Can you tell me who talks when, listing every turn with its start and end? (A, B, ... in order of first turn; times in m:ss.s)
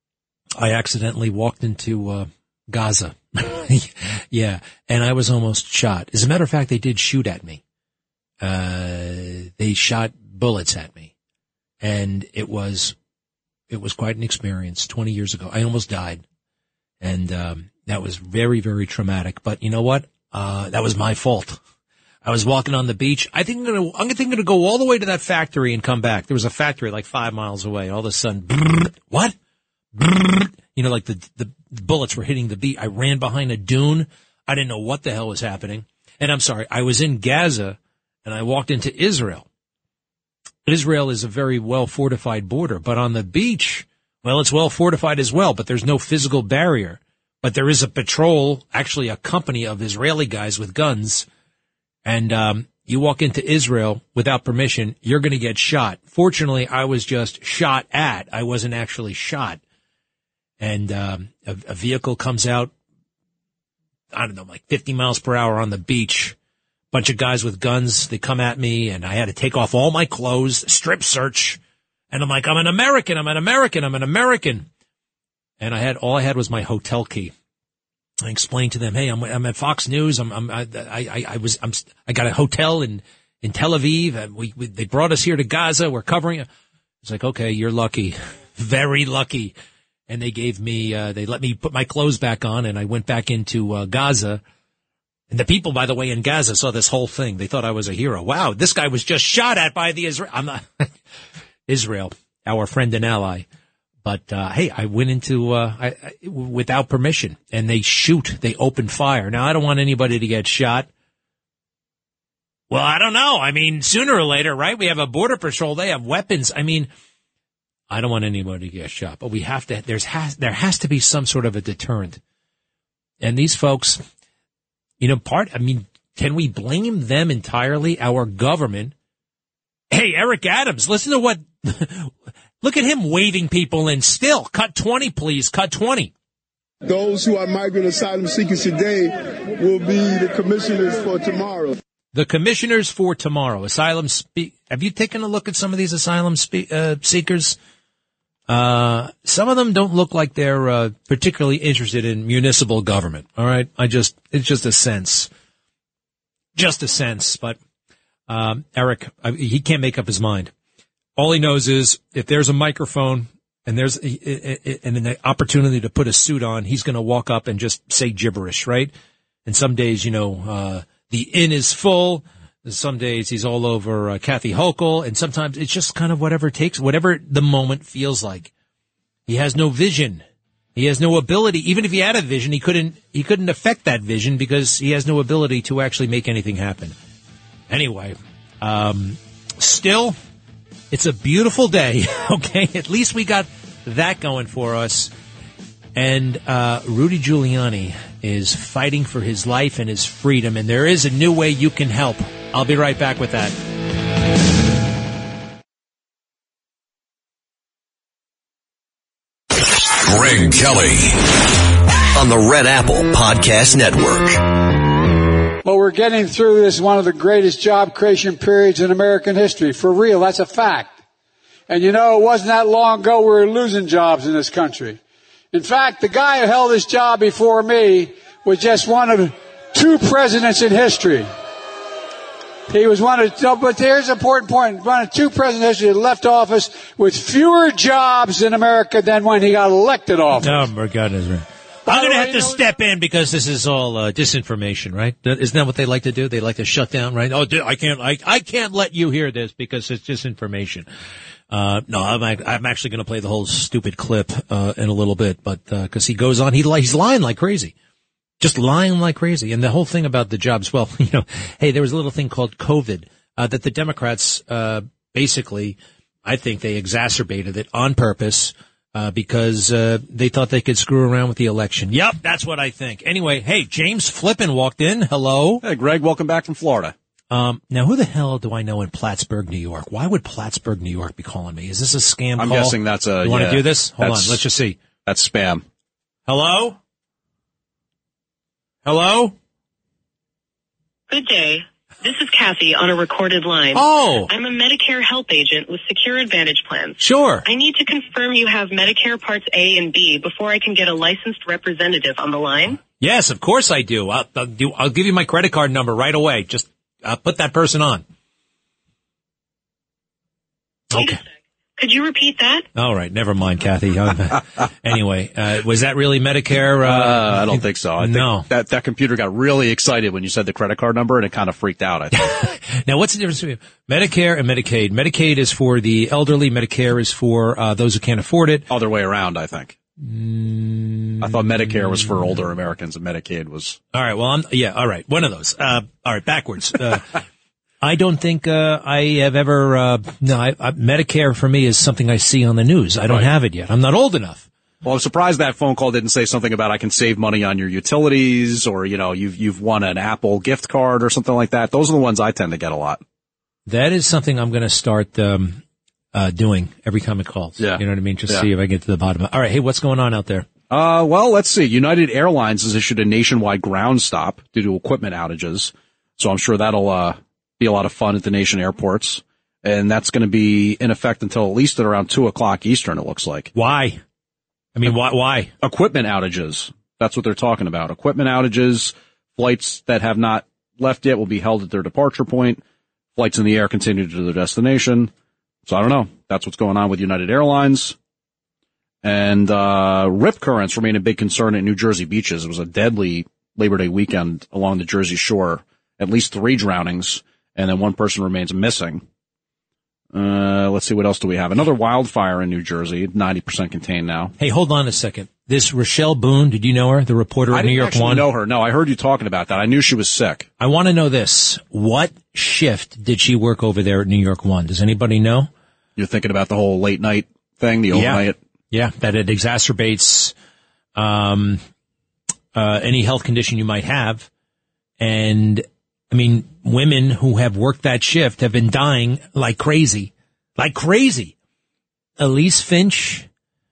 0:00.6-0:07.6 A
0:08.4-0:11.1 A
0:11.8-0:13.0 A
0:13.7-0:16.2 A
0:17.0-0:21.6 A
0:22.2-0:29.3 A
0:30.0-0:39.5 A
0:40.7-0:51.3 A
0:52.0-0:59.6 A
1:00.6-1:02.7 A
1:04.1-1:06.4 A
1:06.9-1:11.6 A
1:12.1-1:14.7 A
1:15.6-1:17.3 A
1:18.2-1:26.5 A
1:27.0-1:29.5 A
1:30.1-1:34.4 A
1:35.3-1:40.9 A
1:41.7-1:43.5 A
1:44.0-1:50.9 A
1:52.7-1:56.9 A
1:57.9-2:02.2 A
2:03.2-2:04.0 A
2:05.0-2:08.9 A
2:09.9-2:16.1 A
2:16.8-2:21.8 B
2:22.1-2:27.6 A
2:28.5-2:35.3 A
2:36.6-2:37.6 A
2:38.3-2:40.5 A
2:41.2-2:48.9 A
2:49.5-2:58.5 A
2:59.3-3:00.2 A
3:00.8-3:07.0 A
3:07.7-3:10.2 A
3:10.9-3:15.1 A
3:16.0-3:23.6 A
3:30.1-3:30.9 C
3:32.2-3:34.4 C
3:35.6-3:41.0 D
3:41.7-3:45.0 D
3:45.5-3:51.3 D
3:52.7-4:00.7 D
4:00.4-4:10.9 A
4:01.9-4:02.6 D
4:11.5-4:17.7 A
4:18.4-4:35.6 A
4:35.6-4:36.9 E
4:37.3-4:44.8 A
4:42.4-4:44.4 E
4:45.0-4:45.6 E
4:46.3-4:46.8 A
4:48.8-4:49.4 A
4:51.1-5:02.8 F
4:53.7-4:54.3 A
4:57.0-4:57.4 A
5:03.0-5:08.0 A
5:10.9-5:11.2 A
5:10.9-5:11.2 F
5:11.8-5:12.7 F
5:12.8-5:18.5 A
5:16.8-5:22.1 E
5:22.2-5:28.7 A
5:28.7-5:29.8 E
5:30.0-5:32.4 A
5:31.2-5:33.8 E
5:33.9-5:37.2 A
5:37.8-5:44.5 A
5:44.8-5:53.0 E
5:53.7-5:55.6 A
5:56.1-6:00.5 A
5:57.6-5:58.5 E
6:00.7-6:13.5 E
6:13.5-6:14.0 A
6:14.8-6:15.5 A
6:15.6-6:22.6 E
6:23.2-6:25.1 E
6:25.7-6:28.0 E
6:29.0-6:39.0 E
6:40.1-6:44.3 E
6:44.4-6:48.3 A
6:47.5-6:50.5 E
6:50.6-6:55.5 A
6:56.0-6:58.4 E
6:57.9-7:00.3 A
7:01.0-7:01.6 A
7:02.6-7:04.3 A
7:05.0-7:11.3 A
7:12.2-7:13.3 A